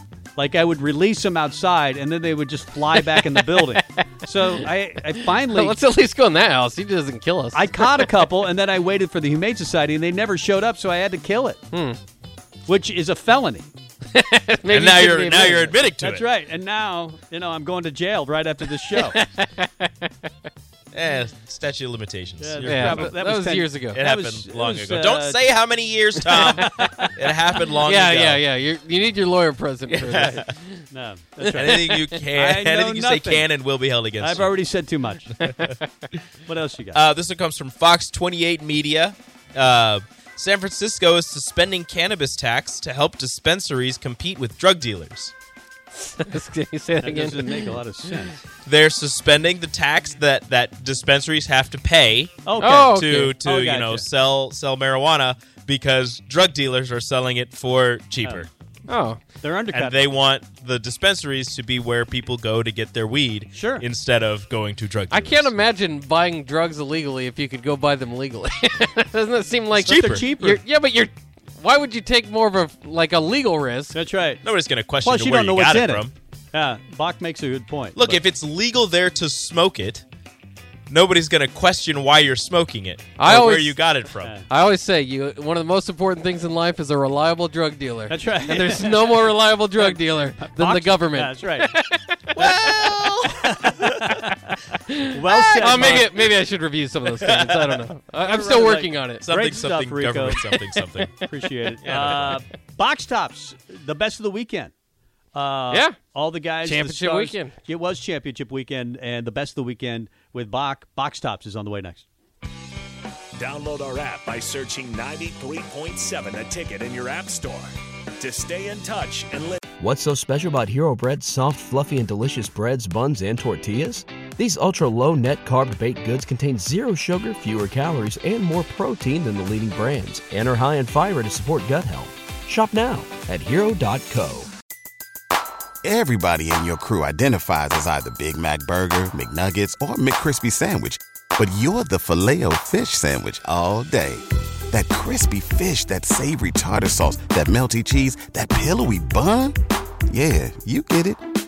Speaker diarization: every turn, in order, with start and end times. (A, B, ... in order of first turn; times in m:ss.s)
0:00.4-0:05.8 A
0:02.9-0:04.7 B
0:05.2-0:08.1 B
0:07.5-0:11.6 A
0:11.7-0:12.0 B
0:12.7-0:13.7 A
0:14.1-0:15.8 B
0:14.7-0:16.2 C
0:16.0-0:19.2 A
0:18.8-0:20.1 B
0:20.9-0:23.2 C
0:22.4-0:25.5 A
0:22.6-0:24.0 B
0:23.9-0:28.4 C
0:26.3-0:27.1 A
0:26.4-0:27.1 B
0:27.8-0:30.9 B
0:29.9-0:30.5 C
0:30.9-0:33.5 A
0:31.5-0:32.2 B
0:31.5-0:34.5 C
0:34.2-0:35.3 A
0:35.4-0:35.7 C
0:35.4-0:35.9 B
0:36.4-0:37.0 A
0:36.9-0:45.3 C
0:46.0-0:47.8 B
0:47.0-0:48.4 A
0:48.6-0:58.5 C
0:52.4-0:54.0 A
0:52.6-0:53.4 B
0:58.9-0:59.2 B
0:59.4-1:00.1 A
0:59.7-1:05.5 C
1:03.5-1:03.8 A
1:05.1-1:14.0 B
1:09.8-1:10.6 A
1:09.8-1:10.3 C
1:13.9-1:14.4 A
1:14.4-1:16.1 C
1:15.0-1:18.2 A
1:17.9-1:20.0 C
1:20.9-1:24.4 C
1:23.2-1:24.0 B
1:24.5-1:32.9 B
1:28.1-1:31.7 A
1:32.4-1:34.2 C
1:32.9-1:34.5 A
1:34.9-1:39.3 B
1:35.1-1:36.3 A
1:35.6-1:36.2 C
1:37.2-1:37.8 C
1:38.2-1:40.5 A
1:39.2-1:41.2 C
1:40.5-1:41.2 B
1:41.3-1:44.7 A
1:41.8-1:42.4 C
1:45.3-1:52.0 A
1:45.7-1:46.0 B
1:46.6-1:47.6 B
1:53.4-1:59.6 D
1:59.8-2:14.5 E
2:15.8-2:29.6 F
2:30.1-2:31.2 F